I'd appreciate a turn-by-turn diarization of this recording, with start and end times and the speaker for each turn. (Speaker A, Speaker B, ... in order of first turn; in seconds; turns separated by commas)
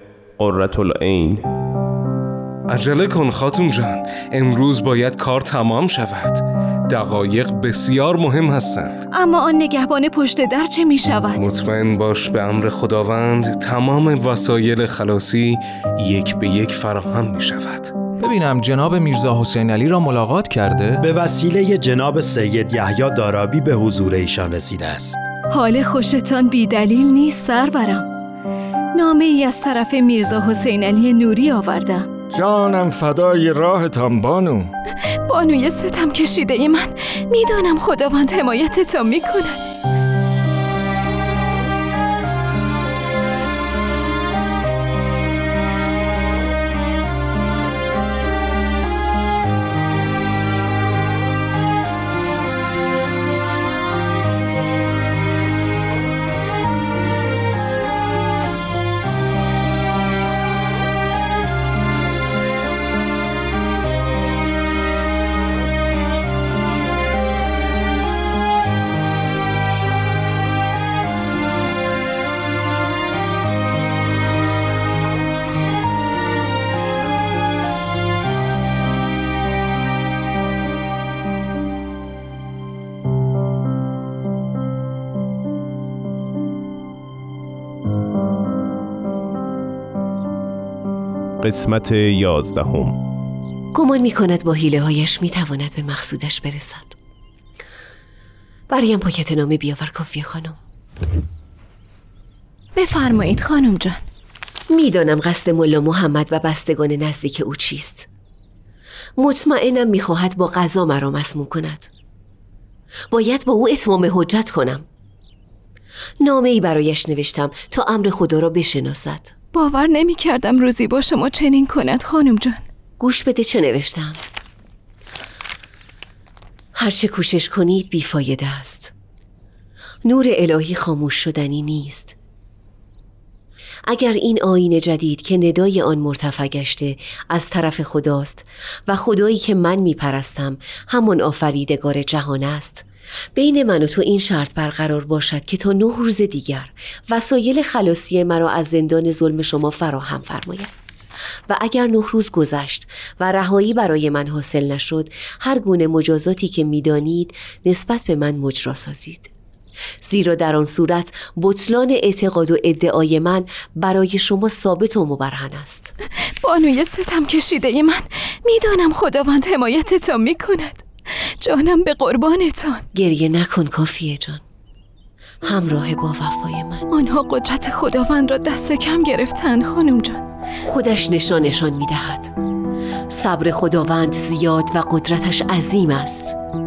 Speaker A: 0.4-1.4, Speaker B: 2.7-9.0, Speaker C: 9.1-11.4, Speaker B: 11.4-17.9, Speaker D: 18.2-21.0, Speaker E: 21.0-25.2, Speaker C: 25.5-28.1, Speaker C: 28.9-32.1, Speaker F: 32.3-34.7, Speaker C: 35.2-39.6, Speaker A: 91.4-93.0, Speaker G: 93.7-96.9, Speaker G: 98.7-100.5, Speaker C: 102.8-104.0, Speaker G: 104.7-108.0, Speaker G: 109.2-111.9, Speaker G: 113.1-114.8, Speaker G: 116.2-119.3, Speaker C: 119.5-122.6, Speaker G: 123.0-124.2, Speaker G: 126.8-128.9, Speaker G: 130.1-132.1, Speaker G: 133.8-150.7, Speaker G: 151.5-159.3, Speaker G: 160.0-165.9, Speaker C: 166.4-170.8, Speaker C: 171.4-172.8, Speaker G: 172.9-174.4, Speaker G: 175.4-176.8, Speaker C: 176.9-180.2, Speaker G: 180.7-182.3, Speaker G: 183.1-186.3